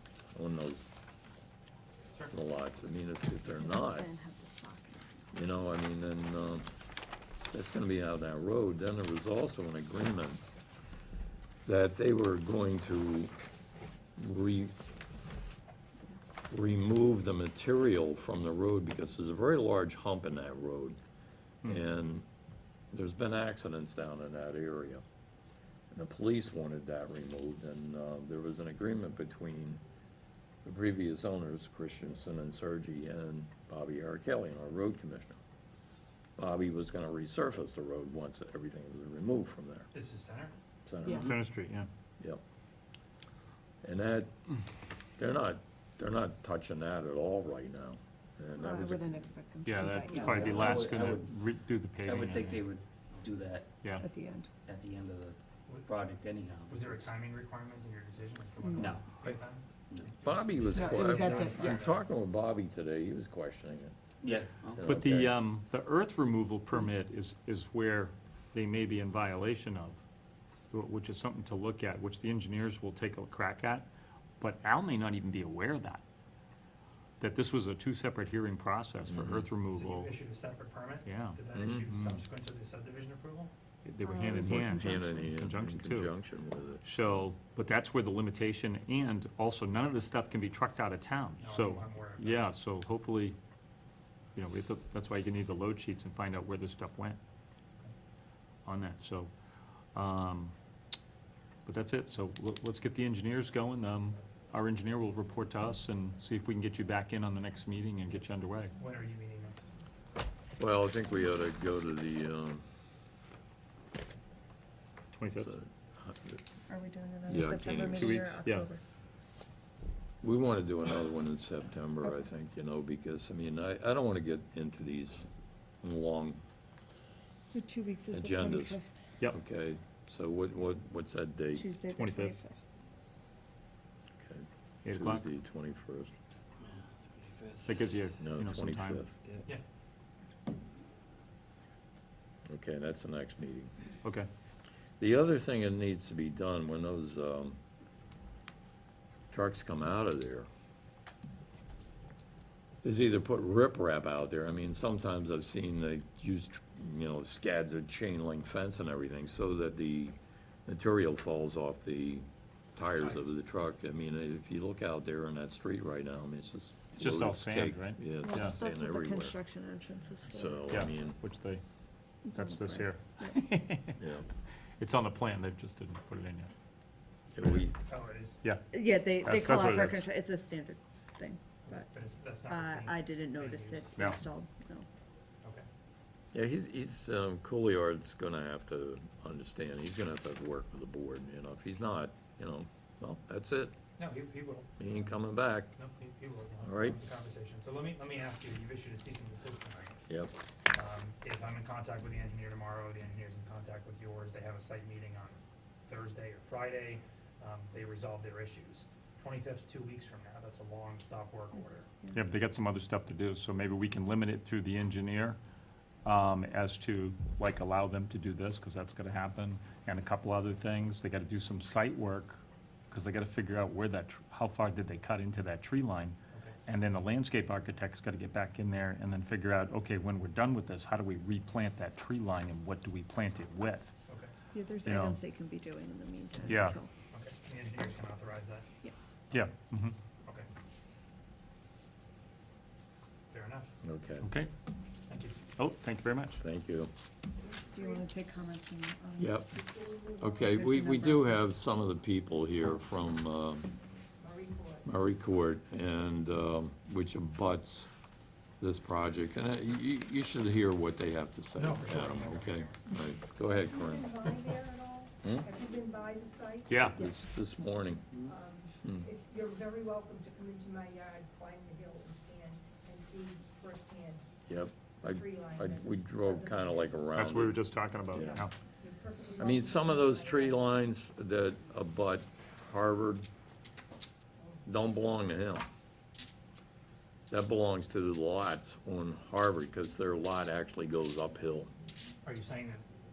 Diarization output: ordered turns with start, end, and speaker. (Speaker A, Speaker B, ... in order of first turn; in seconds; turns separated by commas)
Speaker A: 0.3-0.8, Speaker A: 2.3-4.1, Speaker B: 3.6-5.2, Speaker A: 5.3-6.7, Speaker A: 7.5-10.4, Speaker A: 11.7-13.3, Speaker A: 14.2-14.7, Speaker A: 16.5-21.0, Speaker A: 21.6-22.2, Speaker A: 22.9-25.0, Speaker A: 25.9-29.8, Speaker A: 30.6-35.4, Speaker A: 36.4-39.9, Speaker C: 39.9-40.5, Speaker A: 40.9-41.3, Speaker B: 41.0-41.4, Speaker D: 41.1-41.9, Speaker A: 43.8-44.3, Speaker A: 45.2-49.3, Speaker B: 48.6-50.8, Speaker D: 49.7-52.6, Speaker E: 50.1-51.3, Speaker E: 52.0-53.8, Speaker B: 54.0-54.5, Speaker E: 54.7-57.1, Speaker C: 55.7-56.0, Speaker C: 56.7-62.0, Speaker E: 58.7-59.0, Speaker A: 60.2-64.0, Speaker B: 60.6-61.8, Speaker E: 64.2-64.8, Speaker A: 64.8-65.3, Speaker D: 64.8-70.0, Speaker D: 70.7-73.9, Speaker D: 74.4-76.0, Speaker D: 77.2-80.1, Speaker A: 79.1-79.5, Speaker C: 79.7-83.5, Speaker D: 81.1-81.4, Speaker A: 81.5-81.8, Speaker D: 81.9-82.2, Speaker D: 83.8-86.1, Speaker B: 84.0-84.7, Speaker A: 84.2-86.8, Speaker D: 86.8-93.4, Speaker C: 91.4-92.5, Speaker D: 94.4-97.2, Speaker D: 98.7-99.3, Speaker D: 100.0-100.5, Speaker D: 101.7-108.8, Speaker C: 108.8-109.8, Speaker A: 110.6-112.6, Speaker D: 115.1-115.5, Speaker A: 115.4-116.4, Speaker B: 116.7-118.8, Speaker A: 117.3-118.3, Speaker D: 118.0-118.7, Speaker A: 120.2-125.3, Speaker A: 125.8-126.4, Speaker B: 127.4-129.0, Speaker A: 128.1-131.7, Speaker B: 131.5-132.7, Speaker D: 131.9-132.3, Speaker A: 134.2-136.1, Speaker D: 134.8-135.2, Speaker E: 136.7-137.7, Speaker D: 137.7-139.1, Speaker A: 138.2-139.2, Speaker A: 142.5-143.7, Speaker A: 145.0-147.6, Speaker A: 149.3-150.5, Speaker A: 152.8-169.4, Speaker D: 166.9-168.6, Speaker B: 168.2-170.6, Speaker A: 170.3-171.2, Speaker D: 170.7-171.6, Speaker B: 172.3-173.4, Speaker D: 172.3-174.0, Speaker A: 174.0-174.3, Speaker D: 174.8-176.5, Speaker A: 177.3-177.8, Speaker C: 177.4-178.4, Speaker B: 178.7-181.9, Speaker D: 179.2-180.1, Speaker C: 181.6-183.9, Speaker B: 182.5-184.9, Speaker A: 186.3-193.8, Speaker C: 194.0-194.9, Speaker A: 194.8-195.7, Speaker C: 195.8-200.0, Speaker A: 196.6-197.0, Speaker A: 200.1-200.3, Speaker C: 200.7-212.0, Speaker D: 212.1-215.4, Speaker D: 216.1-233.9, Speaker B: 234.5-236.9, Speaker D: 234.8-235.2, Speaker D: 236.5-236.8, Speaker C: 237.1-238.7, Speaker D: 239.3-240.0, Speaker C: 243.3-243.7, Speaker A: 243.8-244.3, Speaker D: 244.2-244.5, Speaker C: 245.1-245.4, Speaker D: 245.5-246.4, Speaker A: 246.4-246.9, Speaker F: 247.4-248.0, Speaker B: 247.7-249.4, Speaker A: 249.2-249.6, Speaker F: 249.6-250.1, Speaker A: 250.2-253.7, Speaker B: 250.4-251.4, Speaker F: 254.2-254.9, Speaker A: 254.8-257.9, Speaker A: 258.6-264.4, Speaker C: 261.6-262.8, Speaker F: 263.5-267.0, Speaker A: 265.2-265.5, Speaker D: 266.7-267.1, Speaker A: 266.9-268.0, Speaker F: 268.2-274.2, Speaker A: 274.5-278.5, Speaker F: 275.0-277.0, Speaker D: 277.1-278.5, Speaker C: 278.1-278.4, Speaker F: 278.8-280.6, Speaker A: 279.4-283.3, Speaker A: 284.6-285.7, Speaker A: 287.3-291.7, Speaker C: 292.2-292.9